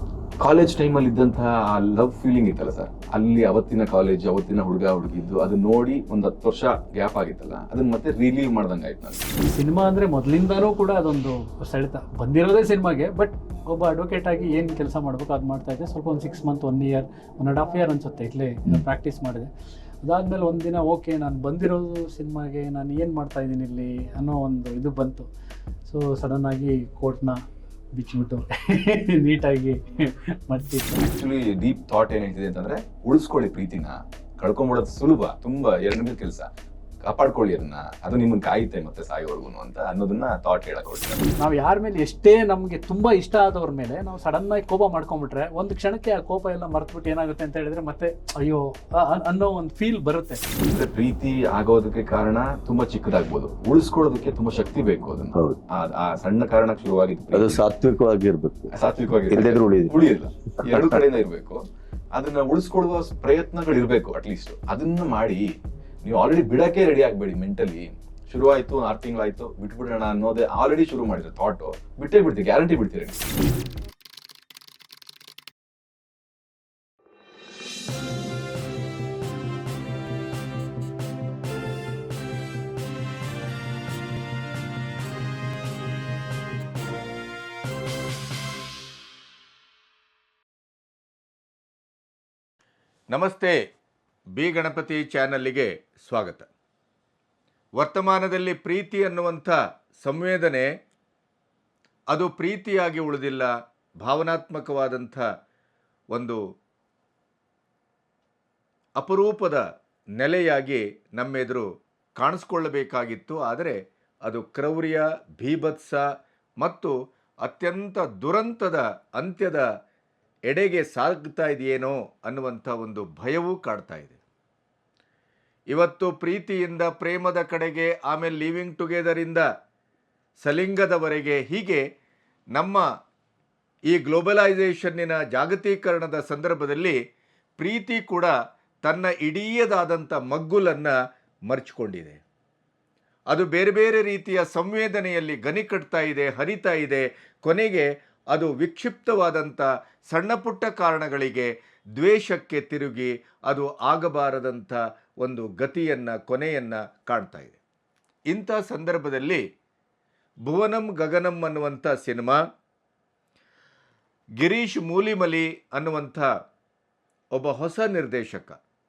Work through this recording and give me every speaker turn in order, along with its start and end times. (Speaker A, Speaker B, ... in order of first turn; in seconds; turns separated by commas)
Speaker A: 0.4-9.3, Speaker B: 9.4-19.5, Speaker B: 20.0-25.3, Speaker B: 25.8-27.4, Speaker B: 27.9-31.0, Speaker A: 30.9-36.5, Speaker A: 37.0-41.3, Speaker B: 41.4-50.4, Speaker A: 50.6-57.6, Speaker C: 57.3-58.7, Speaker A: 58.7-61.6, Speaker C: 59.3-59.9, Speaker C: 60.6-61.0, Speaker A: 62.1-65.5, Speaker A: 66.0-73.3, Speaker D: 93.1-93.5, Speaker D: 94.4-96.5, Speaker D: 97.8-100.7, Speaker D: 102.1-103.5, Speaker D: 104.0-105.2, Speaker D: 106.1-106.4, Speaker D: 109.0-109.6, Speaker D: 110.2-111.7, Speaker D: 112.2-116.0, Speaker D: 116.6-119.6, Speaker D: 120.5-124.2, Speaker D: 125.7-129.4, Speaker D: 130.4-131.8, Speaker D: 132.6-132.8, Speaker D: 133.9-137.0, Speaker D: 137.6-138.3, Speaker D: 138.8-140.9, Speaker D: 141.5-142.2, Speaker D: 143.3-157.6, Speaker D: 158.3-159.4, Speaker D: 160.5-162.4, Speaker D: 164.4-166.3, Speaker D: 167.3-168.6